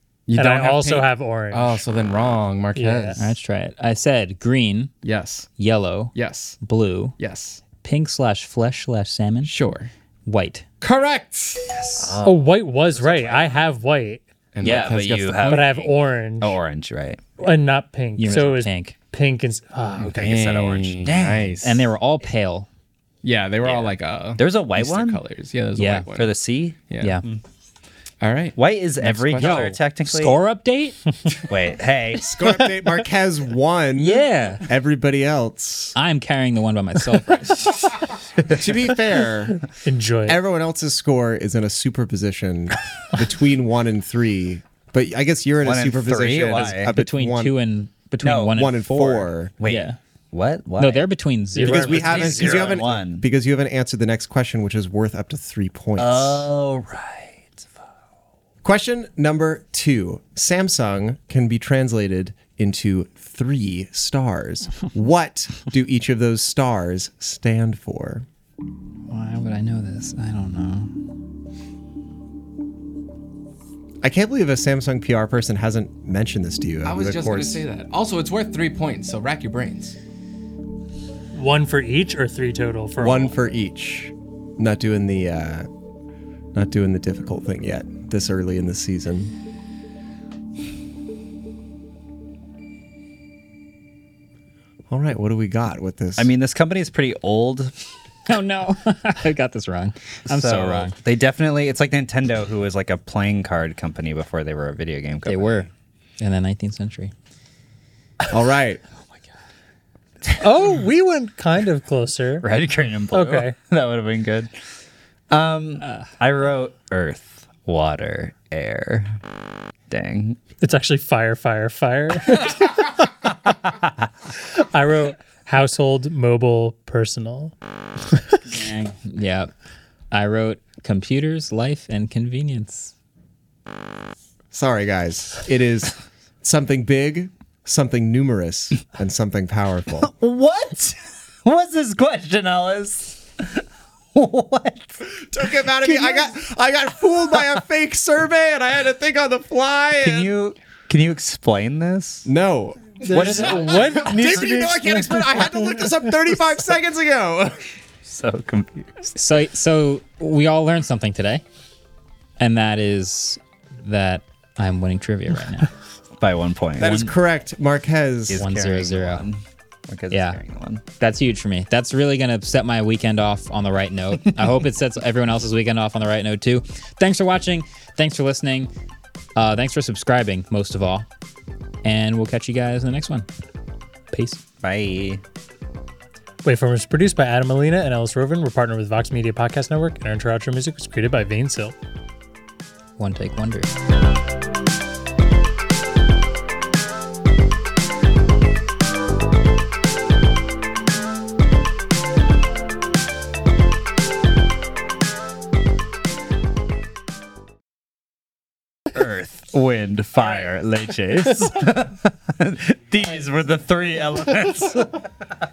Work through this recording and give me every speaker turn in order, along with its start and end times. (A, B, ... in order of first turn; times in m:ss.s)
0:00.3-0:03.2 A
0:00.4-0:01.8 B
0:02.7-0:03.2 B
0:03.2-0:04.9 C
0:05.0-0:05.5 A
0:05.6-0:07.2 C
0:06.1-0:06.6 A
0:07.2-0:07.6 A
0:07.8-0:09.5 C
0:09.4-0:09.9 A
0:10.2-0:10.6 C
0:10.8-0:12.0 A
0:12.0-0:13.6 D
0:12.2-0:14.2 B
0:14.5-0:15.6 A
0:14.6-0:17.2 D
0:14.6-0:14.9 C
0:15.4-0:16.6 B
0:17.4-0:20.7 B
0:18.2-0:18.9 C
0:20.0-0:21.9 A
0:20.0-0:21.6 D
0:21.6-0:22.7 C
0:23.2-0:26.3 A
0:23.6-0:25.2 D
0:25.8-0:26.1 C
0:26.1-0:27.4 D
0:26.9-0:27.2 A
0:28.2-0:29.7 A
0:28.6-0:30.4 D
0:29.4-0:31.0 C
0:31.5-0:32.3 D
0:32.2-0:36.0 E
0:34.0-0:34.6 C
0:35.9-0:37.9 C
0:38.5-0:39.7 E
0:39.7-0:40.4 B
0:40.3-0:47.5 E
0:45.6-0:46.9 D
0:46.5-0:50.0 C
0:48.2-0:48.6 D
0:48.5-0:49.5 E
0:49.6-0:51.1 D
0:50.8-0:52.6 C
0:51.5-0:52.8 B
0:51.6-0:56.5 E
0:51.7-0:53.2 D
0:56.0-0:57.6 D
0:58.6-1:08.2 E
1:09.1-1:10.9 C
1:14.0-1:17.6 E
1:16.8-1:19.9 A
1:21.3-1:23.4 B
1:23.0-1:25.7 E
1:26.5-1:29.3 E
1:34.9-1:36.3 E
1:36.2-1:37.7 D
1:38.3-1:40.9 C
1:40.2-1:45.7 D
1:45.2-1:45.7 C
1:46.2-1:47.1 C
1:48.3-1:48.8 E
1:50.4-1:52.5 B
1:52.4-1:54.5 D
1:53.1-1:53.6 B
1:55.3-1:59.2 D
1:59.9-2:00.4 D
2:00.6-2:03.5 B
2:04.5-2:07.5 B
2:08.1-2:08.4 B
2:08.5-2:09.5 C
2:10.1-2:12.9 C
2:14.5-2:20.1 E
2:20.0-2:26.3 D
2:25.2-2:30.3 E
2:30.0-2:32.3 D
2:32.2-2:37.6 E
2:33.0-2:35.9 B
2:33.1-2:34.3 D
2:38.0-2:39.1 D
2:39.1-2:41.4 C
2:42.4-2:45.7 C
2:46.2-2:47.1 D
2:46.8-2:48.4 E
2:48.3-2:50.8 D
2:48.3-2:49.2 C
2:50.1-2:50.4 C
2:51.0-2:58.7 C
2:59.4-3:01.0 C
3:01.8-3:03.3 C
3:04.1-3:04.4 C
3:04.6-3:05.2 D
3:06.4-3:11.7 B
3:13.0-3:13.7 C
3:28.9-3:35.0 D